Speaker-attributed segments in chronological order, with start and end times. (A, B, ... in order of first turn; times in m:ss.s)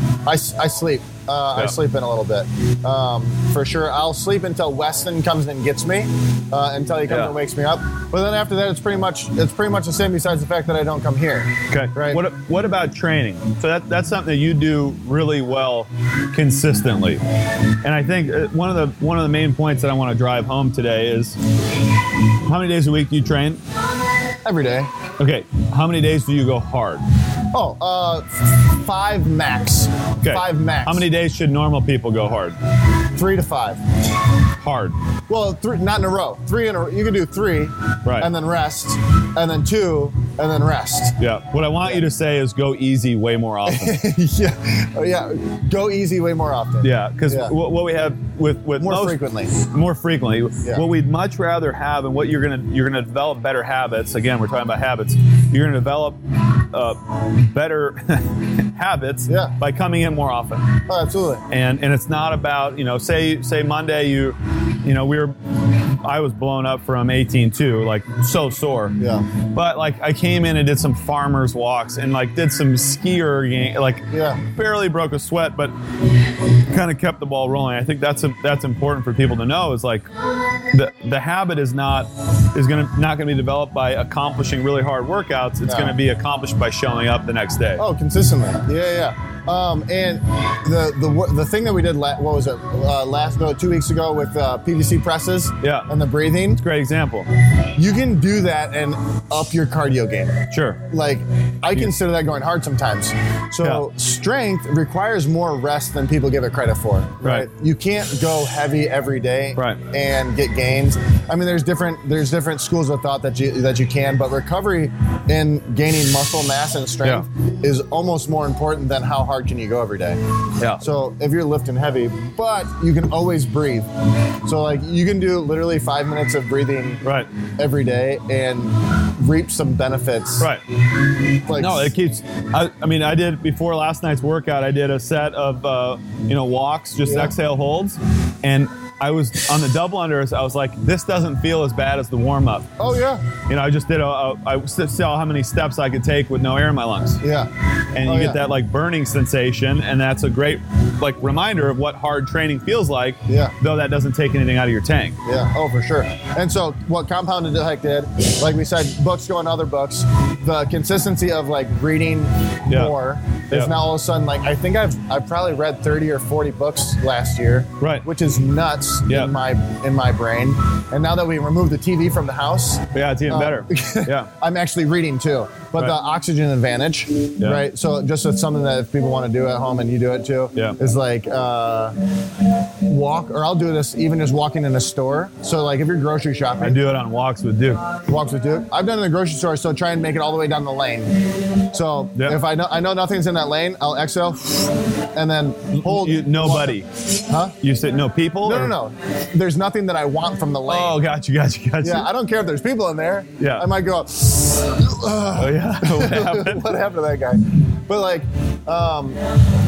0:00.2-0:12.2 A
0:07.1-0:07.3 B
0:11.7-0:17.2 B
0:17.8-0:21.4 B
0:22.4-0:23.6 B
0:24.4-0:24.9 A
0:25.2-0:27.0 B
0:27.5-0:31.0 A
0:30.2-0:32.6 B
0:33.1-0:33.8 A
0:34.6-0:35.0 B
0:35.3-0:41.2 A
0:38.0-0:38.3 B
0:41.2-0:44.0 B
0:43.6-0:47.5 A
0:46.8-0:56.2 B
0:48.8-0:49.5 A
0:56.7-1:00.8 B
0:59.3-0:59.5 A
1:00.9-1:01.4 A
1:01.5-1:09.0 B
1:09.0-1:09.3 A
1:09.5-1:15.7 B
1:14.1-1:14.4 A
1:16.7-1:20.1 B
1:20.7-1:27.8 B
1:25.6-1:25.9 A
1:27.8-1:36.6 A
1:35.6-1:35.9 B
1:36.5-1:37.3 B
1:37.7-2:00.2 A
1:40.5-1:40.8 B
2:00.8-2:03.9 A
2:04.4-2:07.0 A
2:07.0-2:07.3 B
2:07.6-2:10.5 A
2:11.4-2:11.9 A
2:11.5-2:22.7 B
2:17.0-2:17.3 A
2:22.8-2:23.2 A
2:23.5-2:27.2 B
2:27.2-2:27.5 A
2:27.9-2:35.2 B
2:28.0-2:28.4 A
2:33.3-2:33.5 A
2:35.2-3:01.9 A
2:42.7-2:42.9 B
2:47.8-2:48.0 B
2:49.1-2:49.3 B
2:52.9-2:54.3 B
3:02.8-3:06.8 A
3:06.6-3:07.8 B
3:08.1-3:11.2 A
3:11.7-3:17.5 A
3:15.7-3:16.9 B
3:17.6-3:18.7 B
3:18.4-3:21.0 A
3:20.7-3:22.1 B
3:21.8-3:29.2 A
3:23.4-3:23.6 B
3:25.4-3:26.6 B